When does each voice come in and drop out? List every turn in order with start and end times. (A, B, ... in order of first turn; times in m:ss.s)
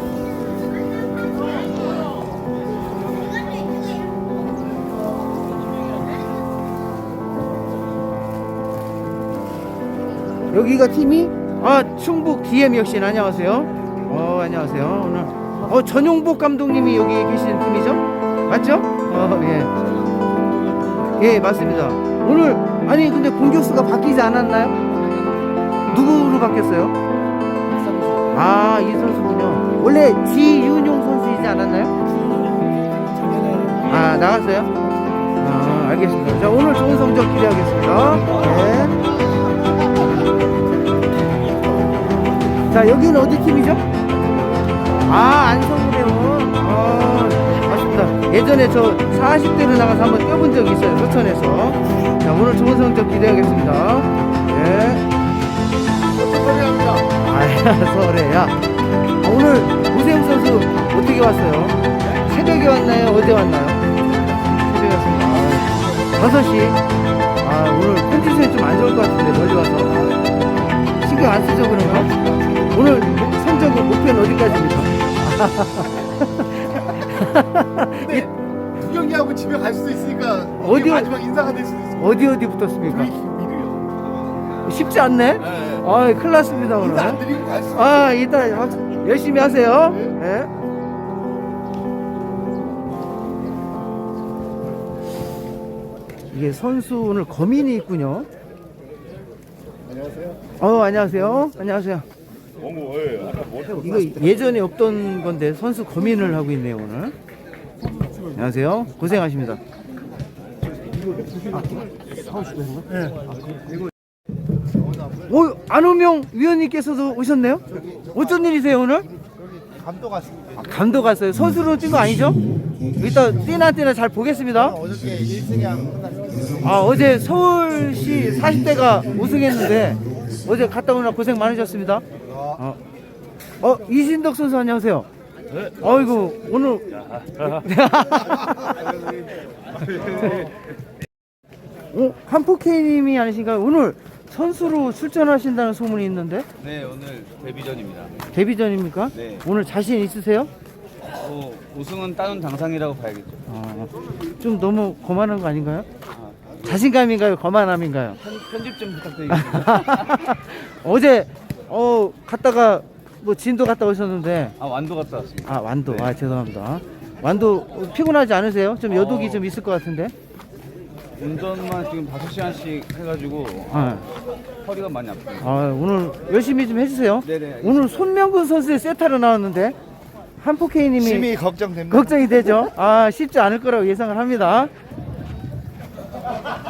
0:10.5-0:19.7 A
0:21.2-0:24.8 A
0:25.9-0:26.9 A
0:28.3-0:31.9 A
0:33.8-0:34.8 A
0:35.4-0:39.0 A
0:42.7-0:43.8 A
0:45.0-0:55.0 A
0:56.2-0:57.0 B
0:57.1-0:58.6 A
0:59.2-1:03.8 A
1:04.5-1:06.8 A
1:07.4-1:10.0 A
1:11.0-1:12.1 A
1:12.7-1:18.3 A
1:18.7-1:22.0 B
1:20.6-1:21.3 A
1:21.9-1:23.2 A
1:23.1-1:23.9 B
1:24.6-1:30.5 A
1:27.2-1:27.6 B
1:36.3-1:38.3 A
1:40.6-1:42.0 A
1:43.0-1:43.4 B
1:43.5-1:47.1 A
1:48.3-1:49.6 A
1:51.5-1:53.1 A
1:55.2-1:59.1 A
1:59.6-2:00.5 B
2:00.6-2:02.4 A
2:03.0-2:04.9 A
2:04.9-2:06.4 B
2:06.6-2:12.8 A
2:13.6-2:15.1 A
2:15.8-2:18.8 A
2:21.9-2:26.5 A
2:26.6-2:28.3 C
2:28.3-2:30.5 A
2:29.1-2:29.4 C
2:31.1-2:33.4 C
2:33.5-2:35.9 A
2:36.2-2:36.5 C
2:36.6-2:38.2 A
2:38.2-2:40.2 C
2:39.3-2:44.5 A
2:44.6-2:46.1 C
2:45.4-2:50.1 A
2:48.9-2:49.4 C
2:51.2-2:54.0 C
2:53.7-2:54.0 A
2:54.6-2:55.5 C
2:55.4-2:59.8 A
2:57.2-2:58.0 C
3:00.4-3:04.7 A
3:01.3-3:01.8 B